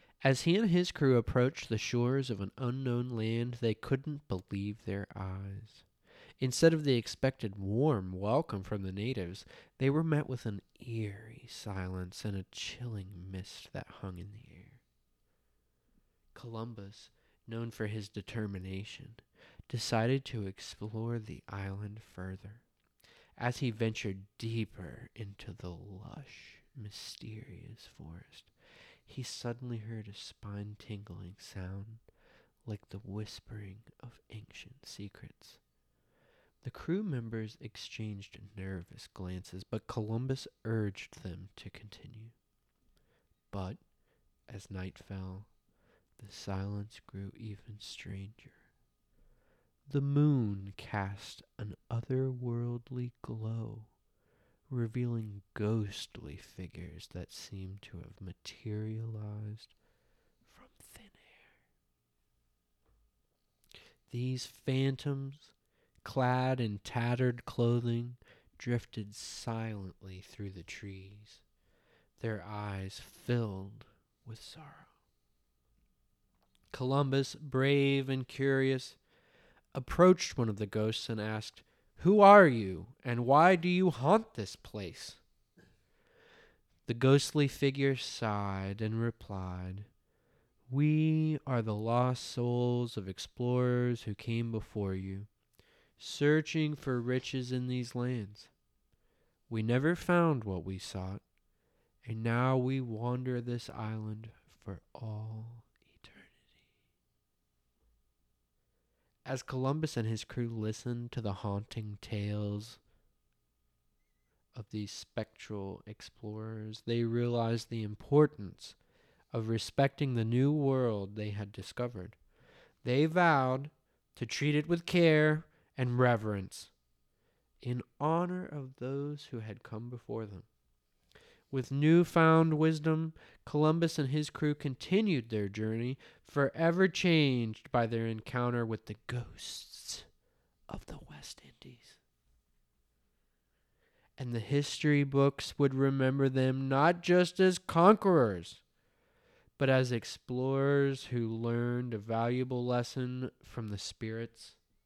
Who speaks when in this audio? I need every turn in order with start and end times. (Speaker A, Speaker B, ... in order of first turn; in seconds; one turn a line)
Speaker A: 0.2-5.8
Speaker A: 6.4-14.8
Speaker A: 16.3-22.6
Speaker A: 23.4-28.5
Speaker A: 29.1-32.0
Speaker A: 32.6-35.6
Speaker A: 36.6-42.3
Speaker A: 43.5-43.8
Speaker A: 44.5-45.5
Speaker A: 46.2-48.5
Speaker A: 49.9-53.9
Speaker A: 54.7-59.7
Speaker A: 60.5-61.5
Speaker A: 64.1-65.5
Speaker A: 66.0-71.4
Speaker A: 72.2-74.9
Speaker A: 76.7-79.0
Speaker A: 79.7-85.2
Speaker A: 86.9-89.9
Speaker A: 90.7-95.3
Speaker A: 96.0-98.5
Speaker A: 99.5-101.2
Speaker A: 102.0-106.5
Speaker A: 109.2-112.8
Speaker A: 114.5-118.8
Speaker A: 119.3-122.2
Speaker A: 122.8-126.7
Speaker A: 127.6-130.4
Speaker A: 131.5-140.1
Speaker A: 140.7-142.0
Speaker A: 144.2-148.6
Speaker A: 149.6-154.6